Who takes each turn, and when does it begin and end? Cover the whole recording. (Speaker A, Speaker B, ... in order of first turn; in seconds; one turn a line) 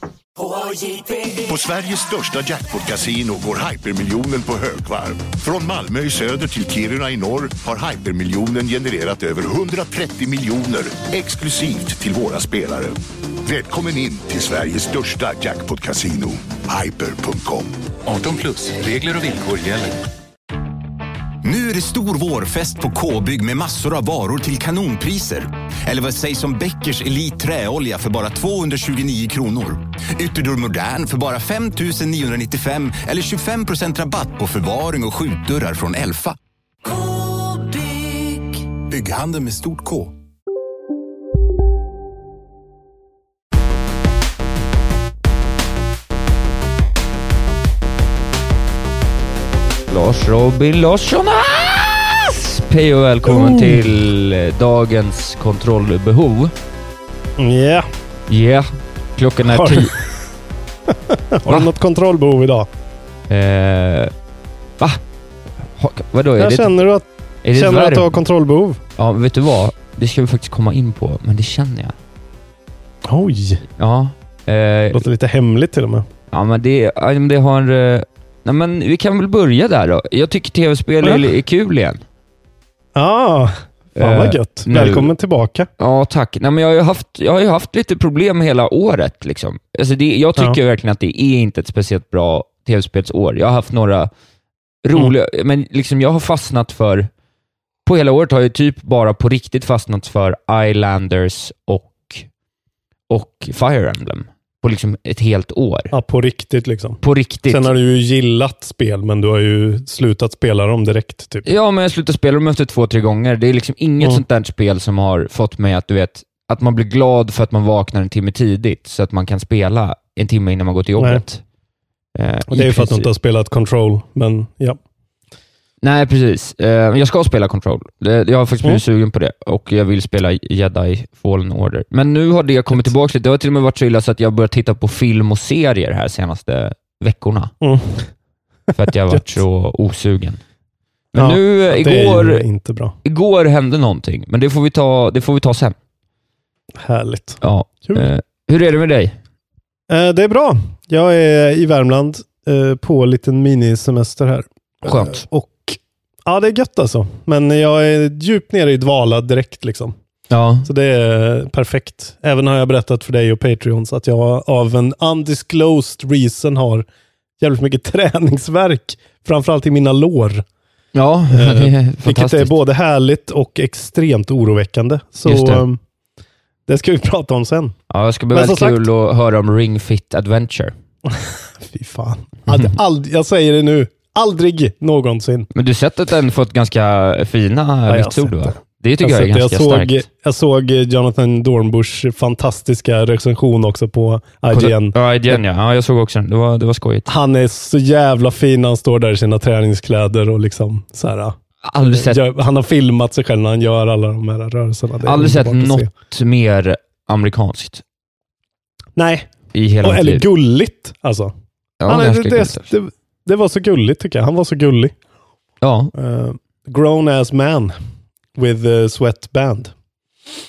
Speaker A: 1.2-17.7
Speaker B: 18.1-19.9
Speaker C: 21.4-36.3
Speaker B: 38.9-40.0
Speaker C: 39.1-39.9
Speaker D: 49.9-56.5
Speaker E: 53.2-53.9
Speaker E: 57.4-57.9
Speaker D: 58.3-60.0
Speaker E: 59.4-60.1
Speaker E: 60.9-62.7
Speaker D: 63.3-64.1
Speaker D: 65.8-66.7
Speaker E: 66.4-68.8
Speaker D: 67.4-68.2
Speaker D: 69.0-72.0
Speaker E: 73.0-73.6
Speaker D: 73.8-75.0
Speaker E: 74.9-76.1
Speaker D: 76.3-82.0
Speaker E: 81.0-81.3
Speaker E: 82.9-85.7
Speaker D: 84.0-85.1
Speaker D: 85.8-94.1
Speaker D: 94.8-97.1
Speaker D: 97.8-102.2
Speaker D: 103.1-105.9
Speaker E: 105.9-111.5
Speaker D: 107.0-107.7
Speaker D: 111.4-121.4
Speaker E: 121.0-121.2
Speaker D: 122.2-123.1
Speaker E: 122.5-124.8
Speaker D: 125.8-137.5
Speaker E: 137.6-138.1
Speaker D: 138.8-140.4
Speaker D: 141.1-142.4
Speaker E: 141.1-142.9
Speaker D: 143.0-145.8
Speaker E: 146.8-148.1
Speaker D: 147.4-149.2
Speaker E: 149.9-159.9
Speaker D: 154.8-155.2
Speaker D: 160.3-160.7
Speaker E: 160.6-166.9
Speaker E: 167.4-170.4
Speaker D: 170.9-172.5
Speaker E: 171.3-175.8
Speaker D: 175.2-175.6
Speaker E: 176.7-177.8
Speaker D: 177.9-180.7
Speaker E: 178.3-178.8
Speaker E: 181.1-185.5
Speaker D: 185.5-190.0
Speaker E: 187.9-195.4
Speaker D: 194.5-197.1
Speaker E: 197.1-205.9
Speaker D: 201.6-202.2
Speaker D: 205.0-207.8
Speaker E: 208.9-209.3
Speaker D: 209.5-210.2
Speaker E: 209.8-211.3
Speaker D: 211.8-212.7
Speaker E: 211.9-214.9
Speaker D: 215.6-215.9
Speaker E: 215.9-217.8
Speaker E: 218.3-219.7